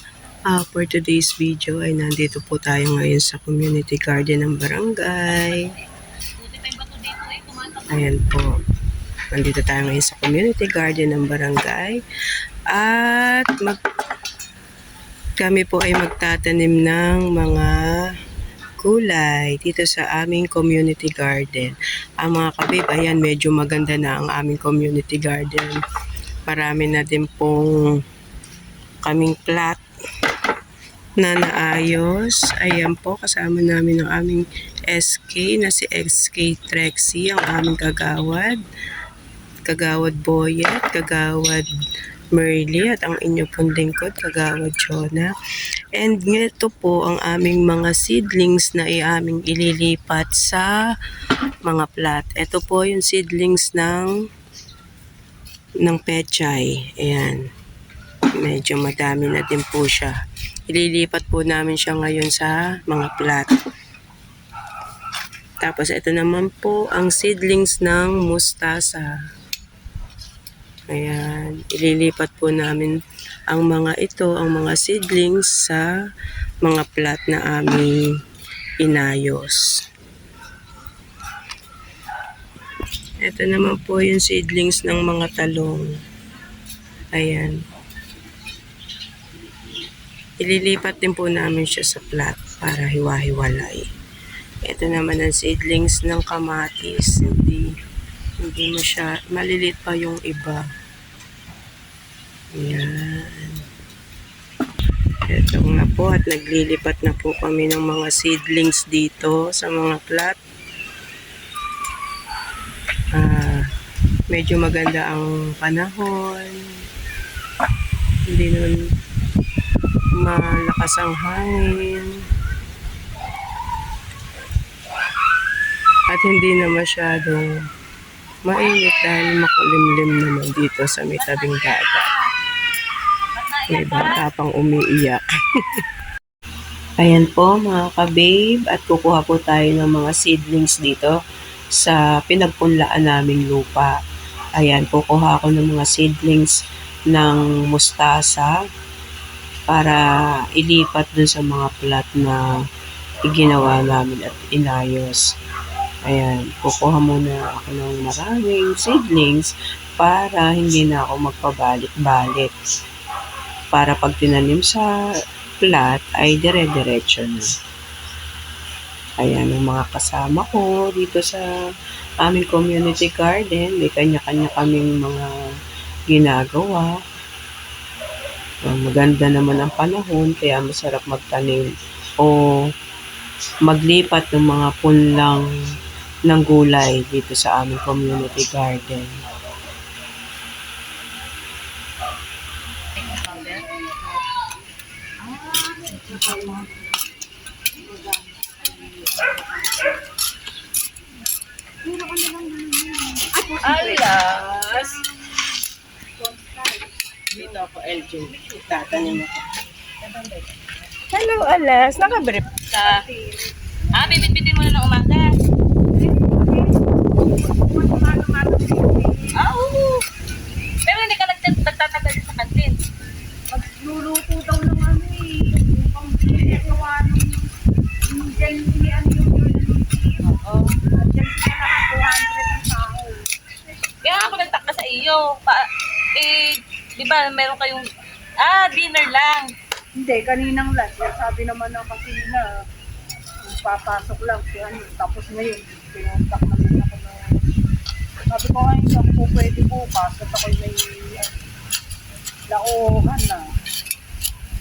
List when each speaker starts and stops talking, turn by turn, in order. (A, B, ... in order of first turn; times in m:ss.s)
0:00.5-0:05.7 A
0:06.4-0:08.1 B
0:07.9-0:08.5 A
0:09.3-0:12.0 A
0:12.7-0:13.8 A
0:15.4-0:17.8 A
0:18.8-0:25.8 A
0:26.5-0:27.8 A
0:29.0-0:29.8 A
0:31.2-0:38.6 A
0:39.6-0:41.6 A
0:42.3-0:45.3 A
0:45.9-0:50.7 A
0:51.6-0:54.1 A
0:55.8-0:57.4 A
0:58.3-1:00.2 A
1:00.7-1:03.5 A
1:05.6-1:09.1 A
1:10.9-1:13.0 A
1:13.5-1:15.9 A
1:16.6-1:18.0 A
1:18.8-1:19.6 A
1:23.2-1:25.9 A
1:27.1-1:27.6 A
1:30.4-1:33.8 A
1:34.6-1:37.6 A
1:38.4-1:40.6 A
1:42.5-1:43.6 A
1:45.3-1:50.4 A
1:53.1-1:53.6 A
1:54.3-1:56.6 A
1:58.3-1:58.8 A
2:00.2-2:02.1 A
2:06.1-2:07.5 A
2:08.4-2:12.1 A
2:11.2-2:12.1 B
2:13.3-2:14.2 B
2:13.7-2:15.2 A
2:17.0-2:21.1 A
2:21.8-2:23.9 A
2:24.6-2:26.5 A
2:27.1-2:28.5 A
2:29.7-2:30.0 A
2:30.5-2:32.4 A
2:33.3-2:35.2 A
2:36.0-2:42.5 A
2:43.7-2:44.9 A
2:45.6-2:47.4 A
2:49.2-2:51.4 A
2:52.2-2:55.3 A
2:56.1-2:56.9 A
2:58.6-3:01.7 A
3:02.2-3:02.6 A
3:03.7-3:05.4 A
3:06.3-3:09.1 A
3:13.0-3:13.6 B
3:15.2-3:16.6 B
3:21.8-3:24.2 C
3:23.6-3:25.0 B
3:24.7-3:25.2 C
3:26.2-3:26.9 C
3:27.3-3:29.5 A
3:30.0-3:30.7 B
3:31.1-3:32.4 A
3:32.0-3:34.4 C
3:32.7-3:33.0 B
3:33.9-3:35.3 B
3:35.9-3:36.8 C
3:37.4-3:39.4 C
3:39.3-3:40.0 B
3:40.8-3:42.8 B
3:43.5-3:47.5 C
3:48.0-3:50.3 C
3:50.3-3:50.8 B
3:50.8-3:53.2 C
3:54.0-3:55.6 B
3:56.2-3:57.8 B
3:58.4-3:59.5 B
3:59.9-4:02.5 C
4:03.4-4:07.4 C
4:08.3-4:11.4 C
4:12.5-4:13.5 C